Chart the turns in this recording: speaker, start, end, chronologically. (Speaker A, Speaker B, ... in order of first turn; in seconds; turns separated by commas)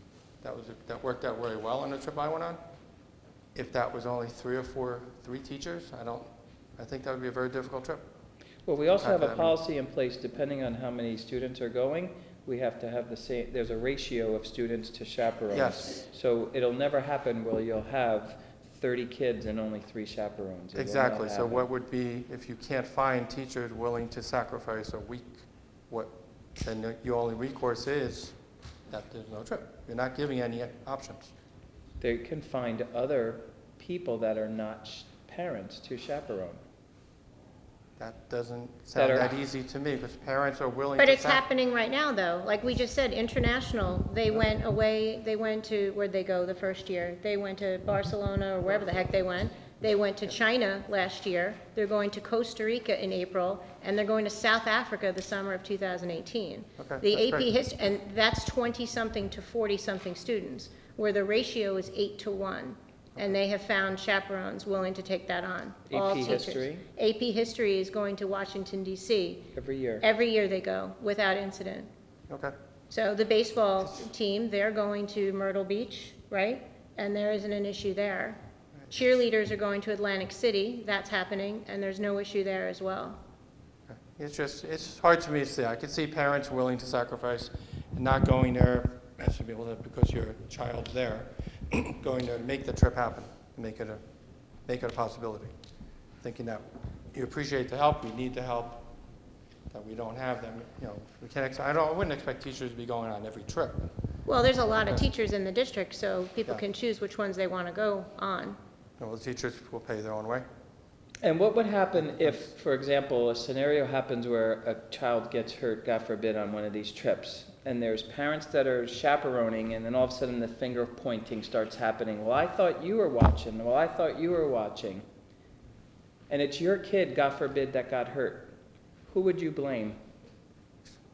Speaker A: 0.4-2.6, Speaker A: 3.5-6.3, Speaker A: 6.8-8.0, Speaker B: 8.6-21.7, Speaker A: 8.9-9.6, Speaker A: 15.5-16.0, Speaker A: 20.7-28.4, Speaker A: 28.9-31.3, Speaker B: 32.0-36.6, Speaker A: 38.0-41.4, Speaker B: 38.9-39.3, Speaker C: 41.0-71.9, Speaker A: 56.8-57.5, Speaker B: 65.9-66.8, Speaker B: 69.5-70.0, Speaker C: 72.9-78.4, Speaker C: 78.9-83.2, Speaker A: 83.9-94.0, Speaker A: 94.7-95.5, Speaker A: 96.2-98.9, Speaker A: 99.7-103.9, Speaker C: 104.3-108.6, Speaker A: 109.0-110.5, Speaker B: 111.2-125.0, Speaker A: 112.0-112.4, Speaker B: 126.3-128.5, Speaker B: 129.1-130.0